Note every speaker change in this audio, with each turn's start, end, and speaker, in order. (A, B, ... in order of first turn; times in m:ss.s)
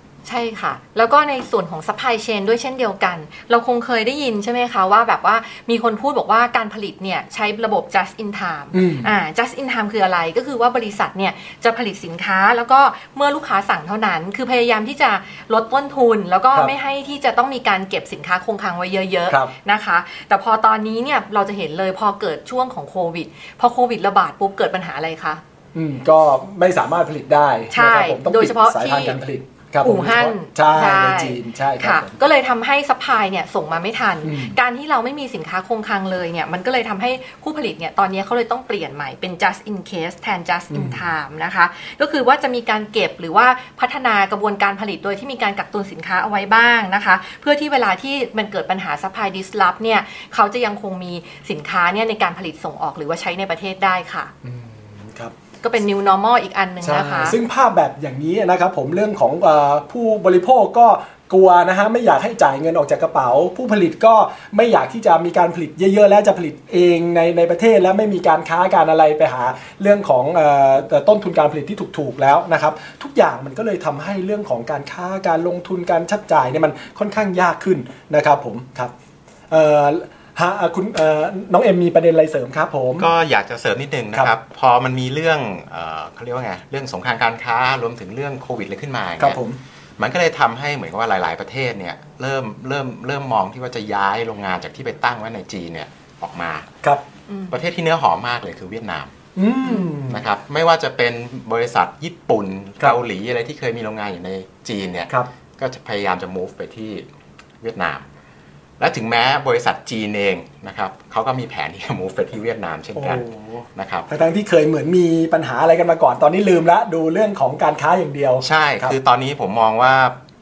0:00.2-0:25.4 A
0:08.7-0:09.1 B
0:19.3-0:19.5 B
0:25.8-0:32.2 B
0:27.7-0:29.2 A
0:29.8-0:54.3 A
0:34.2-0:34.6 B
0:40.7-0:41.0 B
0:54.4-0:55.3 B
0:55.6-0:57.4 A
0:56.8-1:18.9 B
1:19.5-1:23.1 B
1:23.0-1:29.4 C
1:29.2-1:29.6 B
1:30.0-1:36.7 C
1:37.3-1:37.6 A
1:37.5-1:39.1 C
1:39.4-1:40.3 B
1:40.1-1:47.1 C
1:47.6-1:48.1 C
1:48.8-1:53.2 C
1:53.0-1:59.0 B
1:53.8-1:54.1 C
1:58.4-2:00.2 C